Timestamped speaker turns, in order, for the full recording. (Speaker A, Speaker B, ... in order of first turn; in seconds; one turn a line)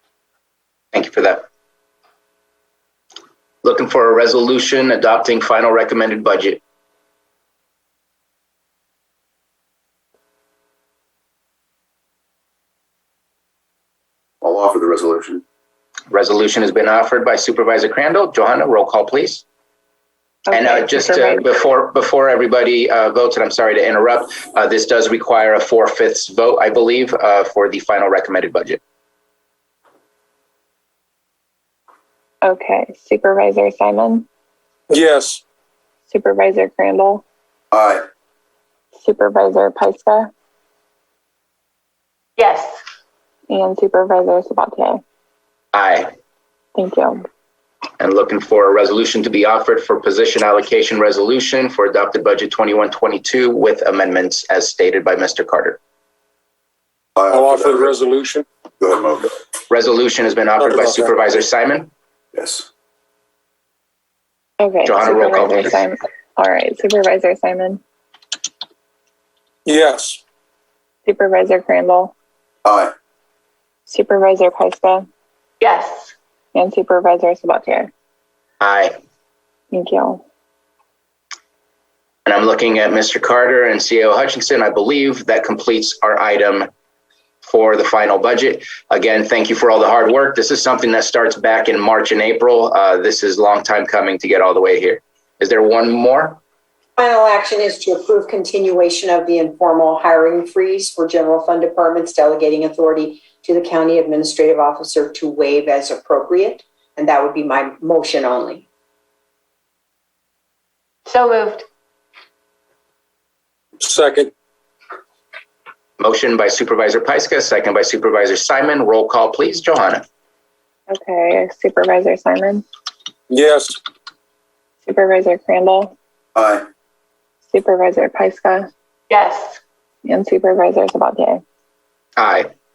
Speaker A: 0.9-1.4
Speaker A: 3.6-6.6
Speaker B: 14.4-15.4
Speaker A: 16.1-19.4
Speaker C: 20.5-21.4
Speaker A: 20.5-28.8
Speaker C: 32.4-34.2
Speaker D: 34.9-35.4
Speaker C: 36.1-37.2
Speaker B: 37.7-38.0
Speaker C: 39.0-40.3
Speaker E: 42.4-42.7
Speaker C: 43.5-45.0
Speaker A: 45.7-46.1
Speaker C: 46.7-47.2
Speaker A: 48.0-55.8
Speaker B: 57.1-57.9
Speaker D: 57.3-58.5
Speaker B: 58.8-59.3
Speaker A: 59.7-61.9
Speaker D: 60.6-61.1
Speaker B: 62.3-62.7
Speaker C: 64.6-67.8
Speaker A: 64.8-65.8
Speaker D: 69.7-70.2
Speaker C: 71.0-72.1
Speaker B: 72.6-72.9
Speaker C: 73.9-75.1
Speaker E: 75.6-76.1
Speaker C: 76.5-77.9
Speaker A: 78.6-78.9
Speaker C: 79.7-80.2
Speaker A: 82.2-86.7
Speaker A: 87.4-96.4
Speaker F: 97.0-108.6
Speaker E: 111.1-111.6
Speaker D: 113.8-114.3
Speaker A: 116.0-120.0
Speaker C: 120.9-122.6
Speaker D: 123.3-123.8
Speaker C: 124.8-125.9
Speaker B: 126.3-126.7
Speaker C: 127.5-128.7
Speaker E: 129.1-129.6
Speaker C: 130.0-131.4
Speaker A: 132.2-132.5